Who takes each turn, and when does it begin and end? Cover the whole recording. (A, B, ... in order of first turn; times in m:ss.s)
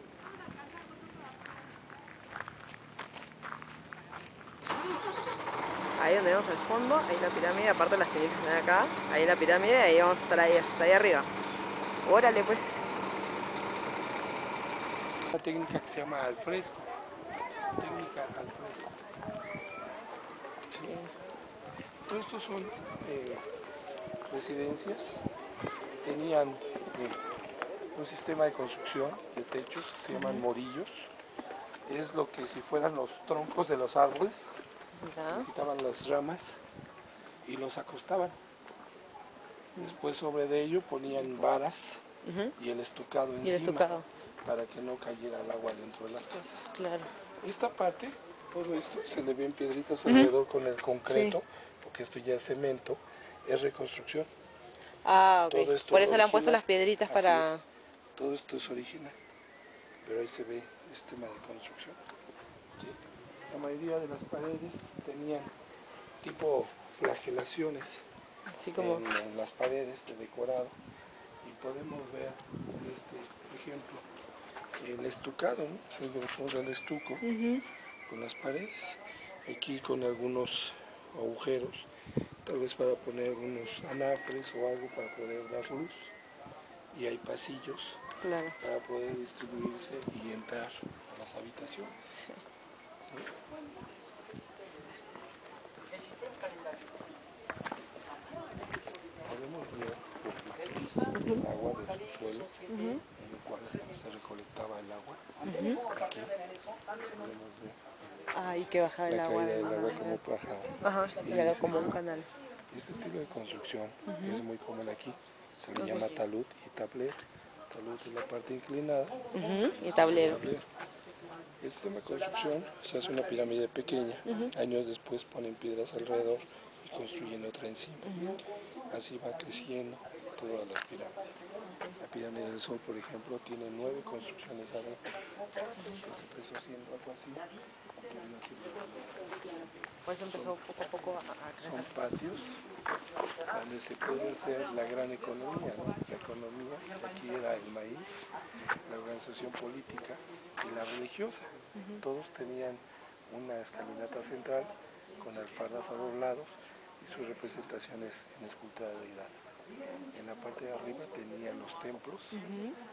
0:06.0-0:11.3 A
0:12.0-0:12.9 A
0:15.3-0:16.9 B
0:17.8-0:19.0 B
0:20.7-0:21.0 B
0:20.8-0:21.1 A
0:22.1-0:23.5 B
0:24.3-0:25.2 B
0:26.0-0:27.2 B
0:27.9-0:31.1 B
0:30.1-0:30.4 A
0:31.8-0:34.6 B
0:35.0-0:35.5 A
0:35.3-0:36.6 B
0:37.4-0:38.4 B
0:39.8-0:42.0 B
0:42.2-0:42.5 A
0:42.6-0:43.9 B
0:43.4-0:44.1 A
0:44.4-0:46.7 B
0:46.7-0:47.1 A
0:47.4-0:54.3 B
0:50.0-0:50.3 A
0:51.1-0:51.4 A
0:55.0-0:57.6 A
0:55.5-0:57.6 B
0:58.2-0:59.2 B
1:00.0-1:02.0 B
1:02.8-1:05.5 B
1:06.2-1:08.1 B
1:08.5-1:09.0 A
1:08.8-1:10.8 B
1:11.4-1:14.1 B
1:14.8-1:17.3 B
1:17.2-1:17.6 A
1:18.1-1:21.9 B
1:22.4-1:26.2 B
1:26.9-1:28.0 B
1:28.2-1:28.6 A
1:28.6-1:32.2 B
1:32.1-1:32.4 A
1:33.1-1:33.3 B
1:39.2-1:45.2 B
1:41.1-1:41.4 A
1:42.7-1:43.0 A
1:45.5-1:45.8 A
1:45.8-1:46.4 B
1:47.1-1:47.8 B
1:48.3-1:50.2 A
1:49.1-1:52.0 B
1:50.8-1:52.3 A
1:52.7-1:59.2 B
1:54.1-1:54.4 A
1:55.8-1:56.2 A
1:59.3-2:00.5 A
1:59.8-2:00.7 B
2:01.6-2:08.4 B
2:04.2-2:04.5 A
2:08.0-2:08.4 A
2:08.9-2:11.4 B
2:11.7-2:12.0 A
2:12.0-2:15.2 B
2:15.8-2:16.0 A
2:16.0-2:17.5 B
2:18.1-2:19.4 B
2:20.1-2:22.0 A
2:20.2-2:20.6 B
2:21.6-2:22.6 B
2:23.5-2:28.3 B
2:28.9-2:39.5 B
2:31.8-2:32.0 A
2:40.1-2:42.4 B
2:42.3-2:42.8 A